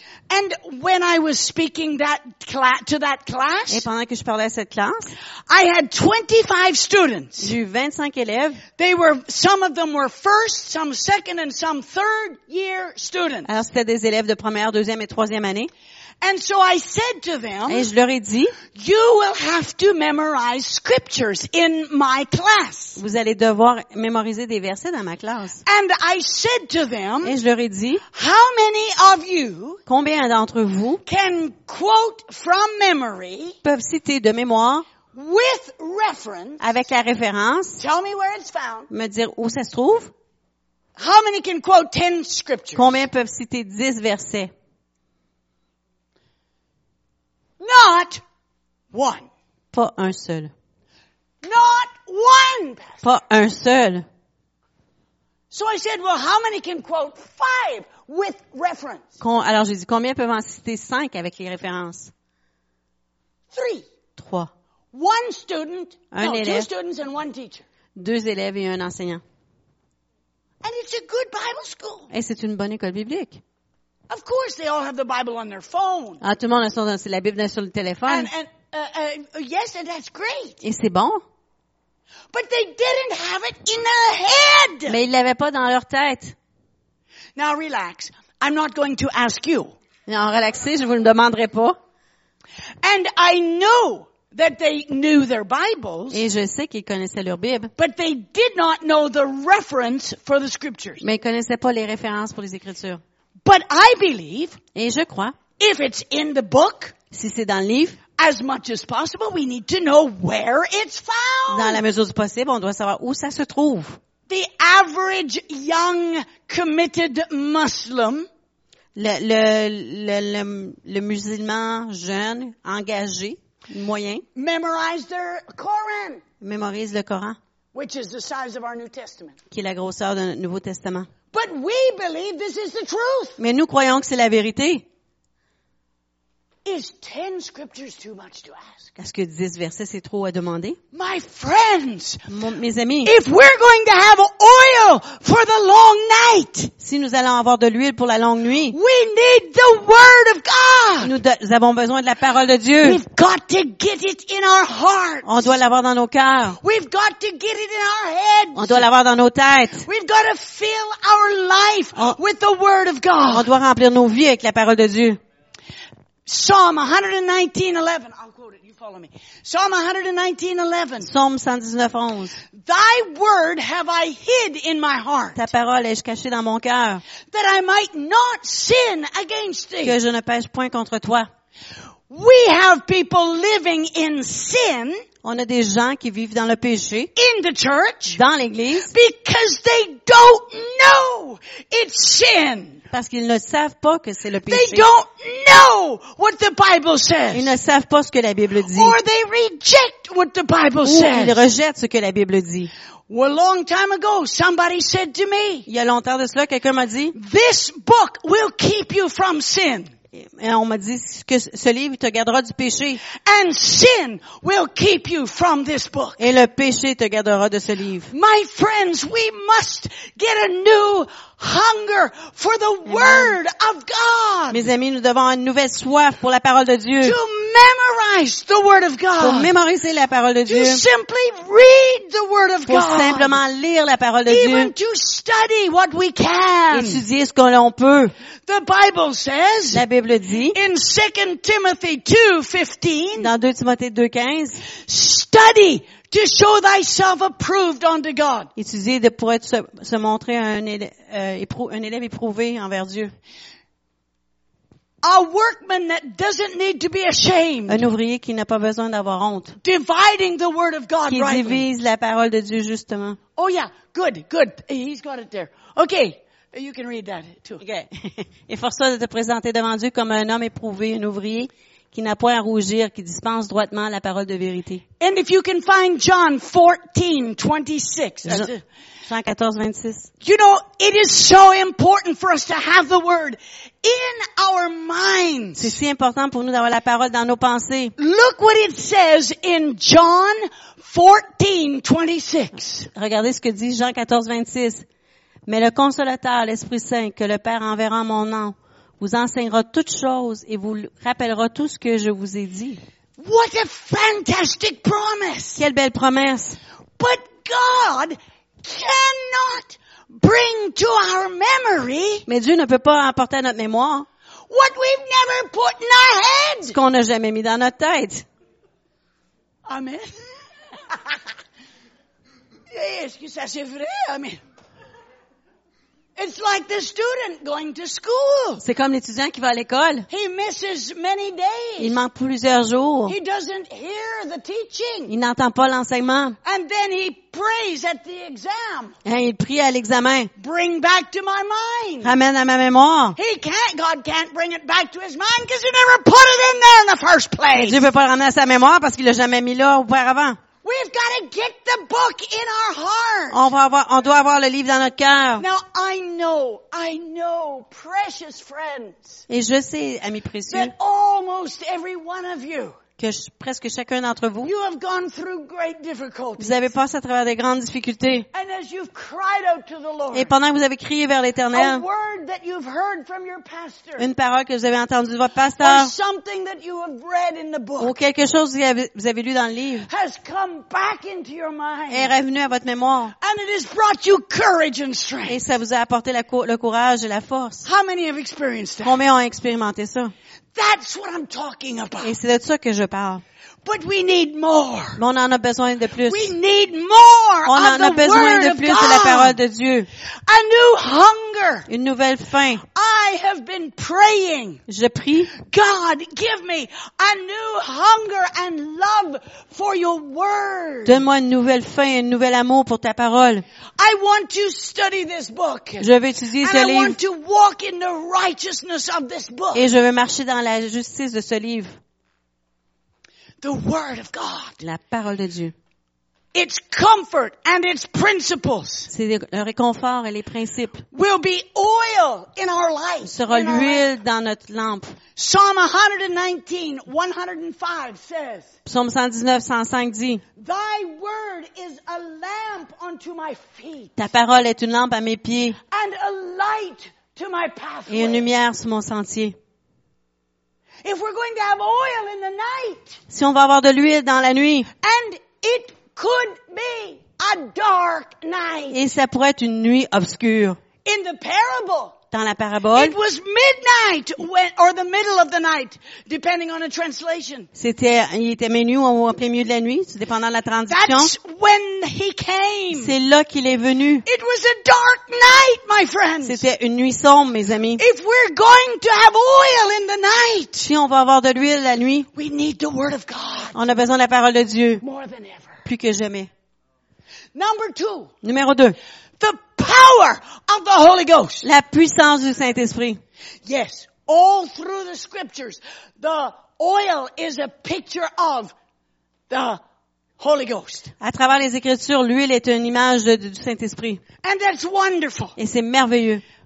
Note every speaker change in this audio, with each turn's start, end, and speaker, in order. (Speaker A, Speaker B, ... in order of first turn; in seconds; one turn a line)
Speaker A: 0.3-3.9
Speaker B: 3.7-5.1
Speaker A: 5.5-7.5
Speaker B: 7.4-8.6
Speaker A: 8.8-13.5
Speaker B: 13.5-15.7
Speaker A: 16.2-17.9
Speaker B: 17.7-18.6
Speaker A: 18.7-23.0
Speaker B: 23.0-25.6
Speaker A: 25.6-27.4
Speaker B: 27.2-28.0
Speaker A: 28.1-29.8
Speaker B: 29.9-31.0
Speaker A: 31.0-33.6
Speaker B: 33.6-34.9
Speaker A: 35.1-36.6
Speaker B: 36.6-37.8
Speaker A: 37.8-38.9
Speaker B: 38.9-40.1
Speaker A: 41.0-43.0
Speaker B: 42.8-44.5
Speaker A: 47.6-48.2
Speaker A: 48.9-49.3
Speaker B: 49.7-50.5
Speaker A: 51.4-53.0
Speaker B: 53.0-54.0
Speaker A: 55.5-59.1
Speaker B: 59.2-62.1
Speaker A: 63.5-63.9
Speaker B: 64.2-64.5
Speaker A: 64.9-67.6
Speaker B: 66.1-66.7
Speaker B: 68.0-69.2
Speaker A: 70.6-72.1
Speaker B: 72.1-73.4
Speaker A: 74.1-76.2
Speaker B: 76.2-78.3
Speaker A: 78.1-80.6
Speaker B: 80.6-81.2
Speaker A: 82.3-85.0
Speaker B: 84.9-86.3
Speaker A: 87.3-89.7
Speaker B: 90.1-91.8
Speaker A: 92.8-96.2
Speaker B: 96.1-97.7
Speaker A: 97.8-101.0
Speaker B: 101.0-103.0
Speaker A: 103.4-104.6
Speaker B: 104.7-105.4
Speaker A: 105.6-106.9
Speaker B: 107.1-108.0
Speaker A: 108.2-111.8
Speaker B: 111.5-114.0
Speaker A: 114.3-118.3
Speaker B: 118.9-124.2
Speaker A: 124.3-126.2
Speaker B: 126.4-127.4
Speaker A: 127.7-129.3
Speaker B: 129.5-131.1
Speaker A: 131.3-133.4
Speaker B: 133.4-134.8
Speaker A: 136.6-138.9
Speaker B: 139.0-140.8
Speaker A: 140.9-142.2
Speaker B: 142.3-143.1
Speaker A: 143.0-146.7
Speaker B: 146.8-148.8
Speaker A: 148.7-151.1
Speaker B: 151.0-153.0
Speaker A: 152.8-155.5
Speaker B: 155.2-156.6
Speaker A: 156.6-158.8
Speaker B: 158.5-159.9
Speaker A: 159.8-163.5
Speaker B: 163.3-165.2
Speaker A: 166.2-171.1
Speaker B: 171.0-172.4
Speaker A: 172.5-175.5
Speaker B: 175.3-177.0
Speaker A: 177.3-180.0
Speaker B: 179.8-181.3
Speaker A: 182.1-185.0
Speaker B: 185.2-187.1
Speaker A: 187.2-188.2
Speaker B: 188.1-188.9
Speaker A: 188.9-192.8
Speaker B: 192.9-194.9
Speaker A: 194.5-197.5
Speaker B: 197.3-199.0
Speaker A: 198.7-201.4
Speaker B: 200.8-202.7
Speaker A: 203.1-205.7
Speaker B: 205.7-207.1
Speaker A: 207.1-209.9
Speaker B: 210.1-213.0
Speaker A: 213.2-216.3
Speaker B: 216.2-218.1
Speaker A: 218.1-224.7
Speaker B: 222.9-223.3
Speaker B: 224.5-227.2
Speaker A: 227.0-229.5
Speaker B: 229.2-230.8
Speaker A: 230.4-233.4
Speaker B: 232.7-234.7
Speaker A: 234.3-237.0
Speaker B: 236.7-238.1
Speaker A: 238.4-239.8
Speaker B: 239.7-240.6
Speaker A: 240.5-243.3
Speaker B: 243.2-244.6
Speaker A: 244.8-248.5
Speaker B: 248.6-253.1
Speaker A: 255.0-257.9
Speaker B: 257.7-259.6
Speaker A: 259.6-261.6
Speaker B: 261.1-263.2
Speaker A: 263.4-267.6
Speaker B: 267.6-274.8
Speaker A: 275.0-278.6
Speaker B: 278.2-278.5
Speaker B: 279.1-280.1
Speaker A: 280.2-285.8
Speaker B: 285.6-287.9
Speaker A: 288.0-292.9
Speaker B: 292.9-294.9
Speaker B: 295.4-302.8
Speaker A: 303.2-305.6
Speaker B: 305.6-306.6
Speaker A: 307.0-312.2
Speaker B: 312.3-314.1
Speaker A: 314.5-316.8
Speaker B: 316.6-318.2
Speaker A: 319.6-320.1
Speaker A: 322.7-324.4
Speaker A: 326.1-328.6
Speaker B: 328.6-330.1
Speaker A: 330.1-332.0
Speaker B: 331.8-333.1
Speaker A: 333.1-335.1
Speaker B: 335.1-336.4
Speaker A: 336.4-339.0
Speaker B: 339.0-340.3
Speaker A: 340.4-342.1
Speaker B: 342.0-343.2
Speaker A: 343.1-347.8
Speaker B: 347.5-350.4
Speaker A: 350.6-353.4
Speaker B: 353.3-355.4
Speaker A: 355.4-359.2
Speaker B: 359.3-360.7
Speaker A: 360.5-362.8
Speaker B: 363.0-364.5
Speaker A: 364.4-366.6
Speaker B: 366.4-368.3
Speaker A: 368.3-370.3
Speaker B: 370.1-371.8
Speaker A: 371.5-374.1
Speaker B: 374.0-375.9
Speaker A: 375.6-377.9
Speaker B: 377.8-379.9
Speaker A: 379.9-382.1
Speaker B: 381.9-383.1
Speaker A: 383.2-385.4
Speaker B: 385.3-387.6
Speaker A: 387.6-388.9
Speaker B: 388.8-390.1
Speaker A: 390.5-392.1
Speaker B: 392.0-393.2
Speaker A: 393.6-395.0
Speaker B: 395.0-396.3
Speaker A: 396.0-399.4
Speaker B: 397.4-399.9
Speaker A: 400.2-401.7
Speaker B: 401.7-402.6
Speaker A: 402.6-404.6
Speaker B: 404.7-405.3
Speaker A: 405.3-411.0
Speaker B: 410.8-413.4
Speaker A: 413.8-415.9
Speaker B: 415.8-416.9
Speaker A: 416.4-419.6
Speaker B: 419.5-421.8
Speaker A: 423.4-424.6
Speaker B: 424.6-425.5
Speaker A: 426.3-428.9
Speaker B: 428.9-430.9
Speaker A: 430.9-433.9
Speaker B: 433.0-435.0
Speaker A: 435.1-438.5
Speaker B: 438.6-440.2
Speaker A: 440.4-443.9
Speaker B: 444.0-445.6
Speaker A: 445.7-448.3
Speaker B: 447.9-449.4
Speaker A: 450.8-453.0
Speaker B: 453.1-454.7
Speaker A: 454.8-458.8
Speaker B: 458.7-460.6
Speaker A: 460.8-461.9
Speaker B: 462.1-462.9
Speaker A: 462.7-467.5
Speaker B: 467.5-471.1
Speaker A: 470.7-472.9
Speaker B: 472.7-474.0
Speaker A: 474.0-476.4
Speaker B: 476.2-477.8
Speaker A: 477.8-480.7
Speaker B: 480.6-482.1
Speaker A: 482.1-483.6
Speaker B: 483.5-484.8
Speaker A: 484.8-485.6
Speaker B: 485.6-486.3
Speaker A: 487.3-488.1
Speaker B: 488.2-488.8
Speaker A: 489.2-491.4
Speaker B: 491.4-493.0
Speaker A: 493.4-498.5
Speaker A: 499.3-499.6
Speaker A: 500.2-500.9
Speaker B: 501.0-504.0
Speaker A: 504.2-505.4
Speaker B: 505.4-506.2